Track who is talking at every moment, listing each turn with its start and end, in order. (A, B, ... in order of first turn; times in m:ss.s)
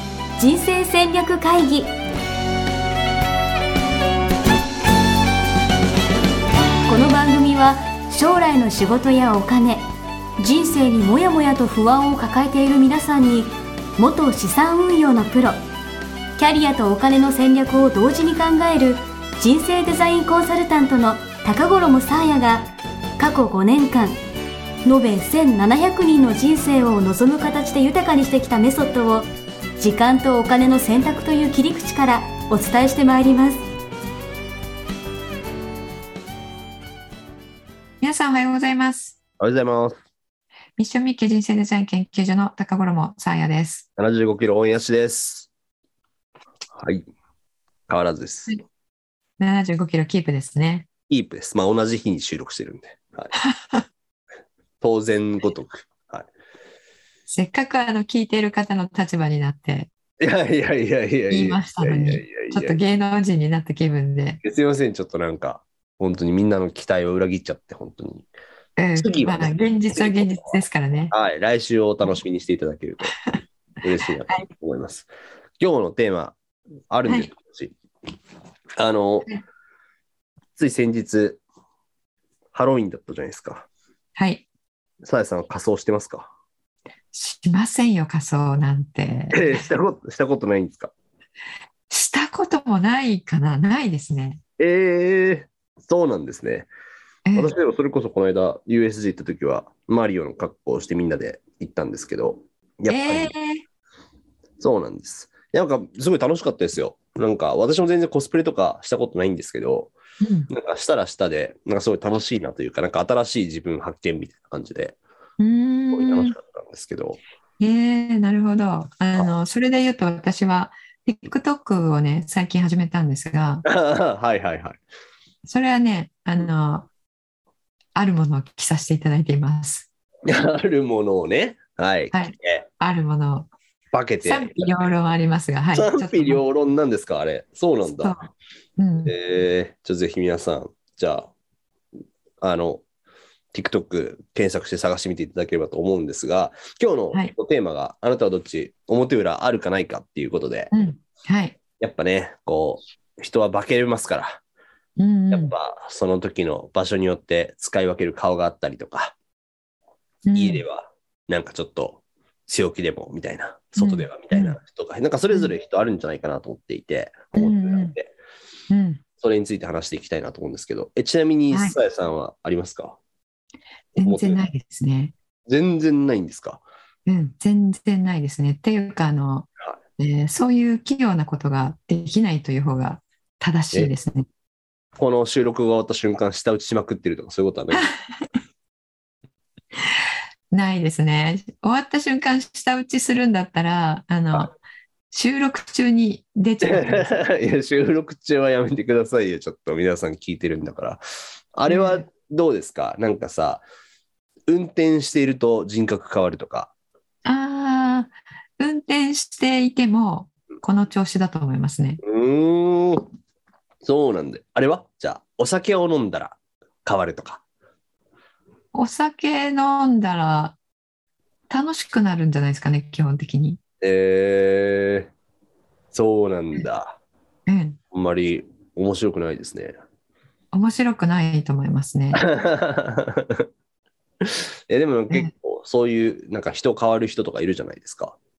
0:00.4-0:01.9 A
0:06.8-0:09.8 A
0:10.4-0:15.6 A
0:16.4-0:24.2 A
0:24.8-0:29.3 A
0:29.8-0:33.6 A
0:38.0-0:39.2 B
0:39.4-0:40.0 C
0:40.8-0:43.8 B
0:44.0-0:45.5 C
0:46.7-0:47.1 C
0:47.9-0:48.6 C
0:49.4-0:50.9 B
0:51.1-0:53.3 C
0:53.4-0:53.8 B
0:54.8-0:56.3 C
0:57.3-0:59.9 B
1:00.2-1:02.8 C
1:01.3-1:04.4 B
1:04.4-1:08.3 C
1:08.8-1:11.1 B
1:09.0-1:10.5 C
1:11.1-1:13.2 C
1:13.8-1:15.1 C
1:15.6-1:16.4 C
1:16.9-1:17.7 C
1:18.8-1:19.4 C
1:20.6-1:21.4 C
1:22.5-1:23.7 C
1:24.2-1:24.5 B
1:25.0-1:26.3 C
1:27.1-1:29.7 B
1:29.3-1:30.9 C
1:31.9-1:34.4 B
1:34.6-1:36.7 C
1:37.2-1:37.5 B
1:37.3-1:43.3 C
1:42.9-1:43.6 B
1:44.6-1:49.9 C
1:50.2-1:50.5 B
1:50.5-1:55.0 C
1:55.4-1:56.4 B
1:55.9-1:57.2 C
1:57.6-2:03.6 B
2:03.6-2:04.8 C
2:05.4-2:06.9 B
2:07.9-2:09.9 B
2:10.2-2:12.6 C
2:12.1-2:13.5 B
2:13.9-2:14.7 C
2:14.2-2:16.4 B
2:15.7-2:18.2 C
2:18.0-2:19.1 B
2:19.0-2:21.3 C
2:22.4-2:22.8 C
2:23.5-2:30.7 C
2:30.7-2:31.6 B
2:31.8-2:34.4 C
2:35.0-2:35.5 B
2:35.3-2:39.2 C
2:40.2-2:40.6 B
2:40.3-2:48.1 C
2:43.8-2:44.6 B
2:47.3-2:48.0 B
2:48.7-2:49.0 B
2:49.2-2:53.0 C
2:51.5-2:51.8 B
2:54.0-2:55.1 B
2:54.0-2:54.4 C
2:55.5-2:56.6 C
2:57.0-3:04.2 B
3:05.0-3:07.9 C
3:10.5-3:14.5 B
3:15.1-3:17.1 B
3:16.6-3:21.0 C
3:21.5-3:23.6 C
3:21.7-3:22.1 B
3:24.5-3:26.7 C
3:27.2-3:32.0 B
3:32.0-3:33.1 C
3:33.8-3:37.4 C
3:38.7-3:40.6 B
3:41.5-3:43.6 B
3:43.8-3:45.1 C
3:45.9-3:47.0 C
3:47.5-3:47.8 B
3:47.9-3:49.7 C
3:50.5-3:52.2 B
3:52.1-3:53.5 C
3:54.2-3:58.2 C